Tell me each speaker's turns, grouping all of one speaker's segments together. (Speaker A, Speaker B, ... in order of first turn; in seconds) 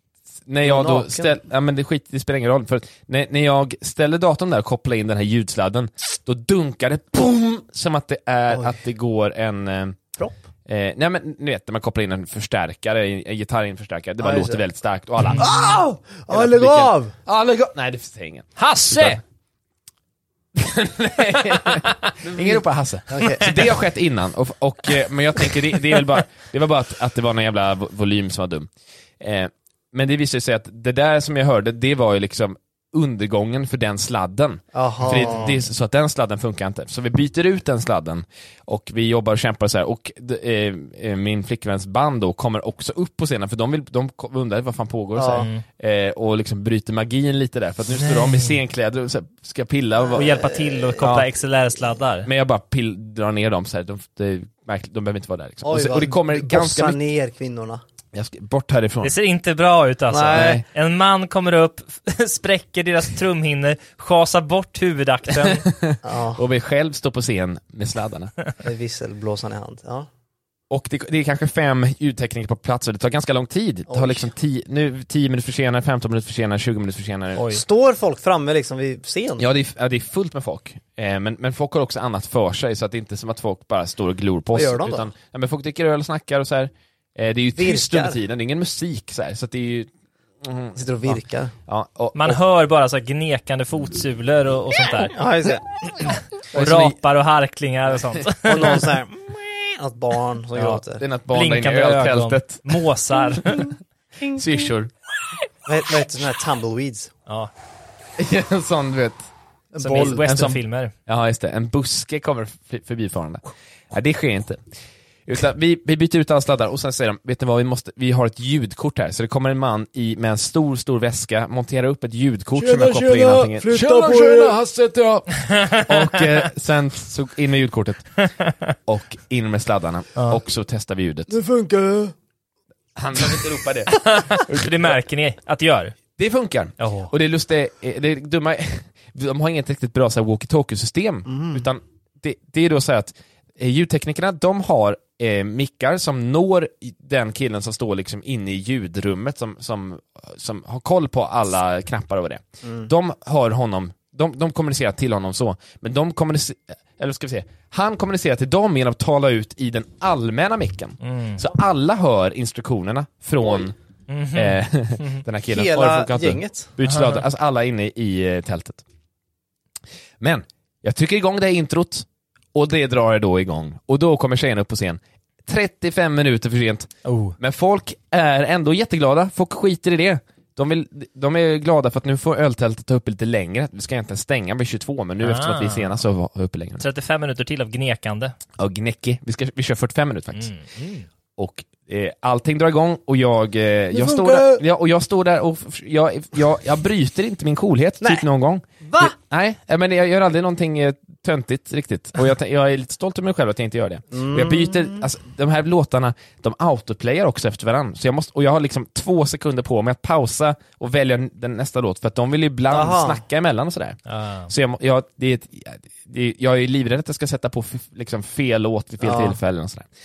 Speaker A: 0.5-10.0, 10.7-15.8, 16.3-19.2, 20.5-51.3, 52.2-57.0, 58.1-59.2, 60.3-60.6, 65.4-68.3, 70.7-77.5, 79.4-92.4, 96.5-97.0, 100.9-102.8, 104.2-104.9, 108.2-109.3, 109.9-114.6, 115.2-128.3, 128.8-131.3, 132.9-135.0, 136.2-163.7, 164.3-168.8, 170.2-186.8, 188.6-190.5, 191.4-219.9
Speaker B: 0.6-1.4, 8.5-8.7, 14.2-14.6, 15.4-17.1, 22.3-23.5, 34.7-35.6, 45.1-45.5, 50.2-51.1, 55.6-57.8, 60.1-60.6, 66.0-66.4, 68.6-70.1, 73.9-74.3, 77.5-79.4, 84.5-85.1, 87.5-88.2, 90.7-91.5, 95.1-96.2, 98.4-101.0, 105.7-107.1, 109.7-110.5, 122.6-124.6, 131.3-132.1, 141.2-141.7, 152.6-152.9, 165.5-166.7, 193.9-194.6, 198.8-199.1, 204.1-205.0, 212.7-213.2, 219.0-219.4
Speaker C: 18.6-19.2, 45.4-45.6, 48.0-48.6, 50.1-52.3, 59.0-65.7, 77.4-77.6, 92.1-95.1, 96.5-98.9, 101.3-103.7, 109.8-110.9, 125.4-125.8, 134.0-135.9, 136.8-137.1, 161.0-161.4, 164.1-165.2, 166.8-167.2, 177.0-177.3, 185.2-186.0, 186.8-188.3, 190.3-191.1, 214.1-214.5